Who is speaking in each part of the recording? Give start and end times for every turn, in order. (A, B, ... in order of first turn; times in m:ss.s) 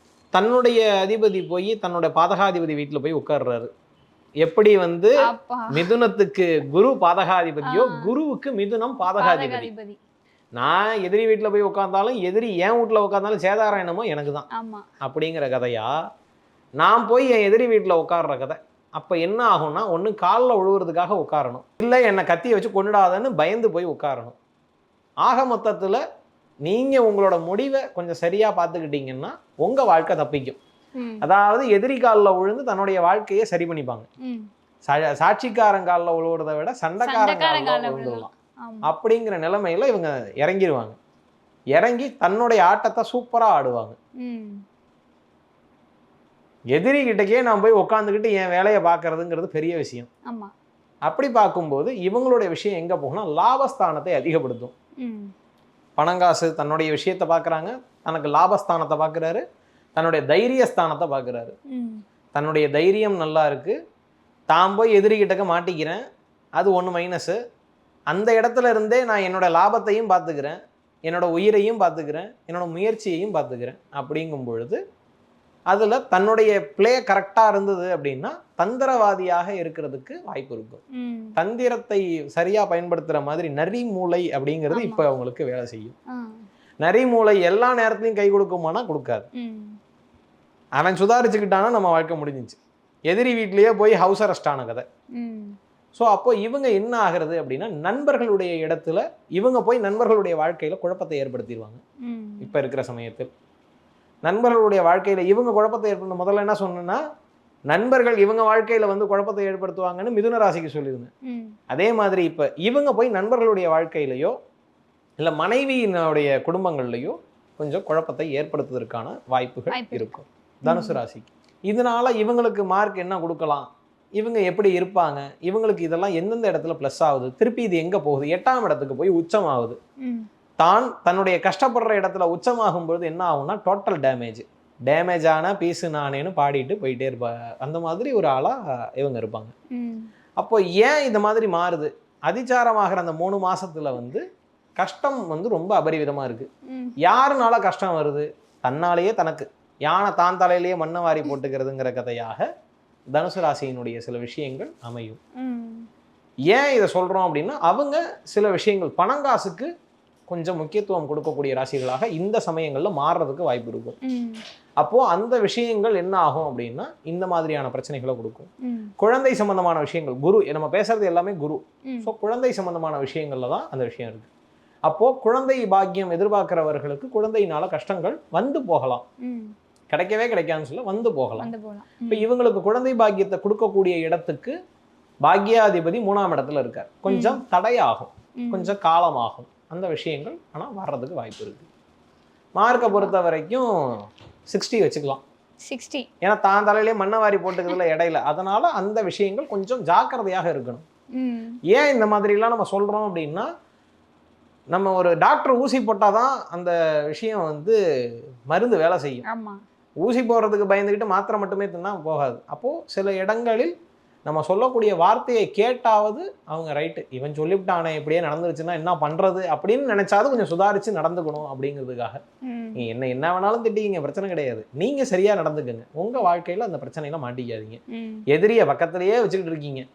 0:00.3-0:03.7 A
0:04.4-0:09.7 A
0:05.2-0:05.9 B
0:07.7-0:08.1 B
0:09.1-0:10.0 B
0:10.6-0:14.5 A
0:14.5-0:14.8 B
0:15.0-0:16.0 A
0:16.8-0:24.3 A
0:25.2-0:26.0 A
0:26.6-0:30.6 A
0:31.0-0:31.2 B
0:31.2-0:34.1 A
0:34.2-0:34.5 B
0:34.8-0:38.3 A
0:37.0-0:38.9 B
0:38.8-0:41.0 A
0:41.7-0:44.0 A
0:44.2-0:44.6 B
0:46.7-0:50.1 A
0:50.3-0:50.5 B
0:51.1-0:54.7 A
0:55.0-0:55.3 B
0:56.0-0:59.4 A
1:00.0-1:01.5 A
1:01.7-1:02.0 B
1:02.3-1:03.7 A
1:04.5-1:06.0 A
1:06.6-1:07.4 A
1:08.1-1:14.8 A
1:15.7-1:20.8 A
1:20.9-1:21.4 B
1:21.4-1:25.9 A
1:24.7-1:25.0 B
1:26.1-1:26.4 B
1:26.8-1:29.3 A
1:29.3-1:29.8 B
1:30.8-1:34.8 A
1:35.1-1:35.6 B
1:35.9-1:41.8 A
1:42.0-1:42.5 B
1:42.4-1:43.3 A
1:44.2-1:47.0 A
1:47.7-1:51.1 A
1:51.2-1:51.6 B
1:51.7-1:54.3 A
1:55.2-2:03.7 A
1:59.7-2:00.1 B
2:00.6-2:01.0 B
2:04.2-2:09.8 A
2:10.0-2:10.3 B
2:10.6-2:19.5 A
2:19.7-2:20.1 B
2:20.4-2:24.2 A
2:24.8-2:26.5 A
2:26.7-2:27.0 B
2:27.0-2:32.4 A
2:33.1-2:35.2 A
2:35.4-2:35.9 B
2:36.5-2:39.7 A
2:40.3-2:44.0 A
2:44.0-2:44.4 B
2:44.8-2:54.3 A
2:48.6-2:48.9 B
2:54.9-2:59.0 A
2:59.2-2:59.5 B
2:59.9-3:01.5 A
3:01.4-3:02.2 B
3:02.1-3:04.5 A
3:05.2-3:11.7 A
3:07.1-3:07.4 B
3:08.4-3:08.7 B
3:12.6-3:15.2 A
3:12.7-3:13.1 B
3:15.6-3:16.1 B
3:16.2-3:20.8 A
3:21.1-3:21.6 B
3:21.7-3:23.5 A
3:24.7-3:27.8 A
3:28.5-3:29.2 A
3:29.3-3:29.6 B
3:30.0-3:33.7 A
3:34.2-3:42.2 A
3:42.4-3:42.8 B
3:42.7-3:49.8 A
3:47.9-3:48.2 B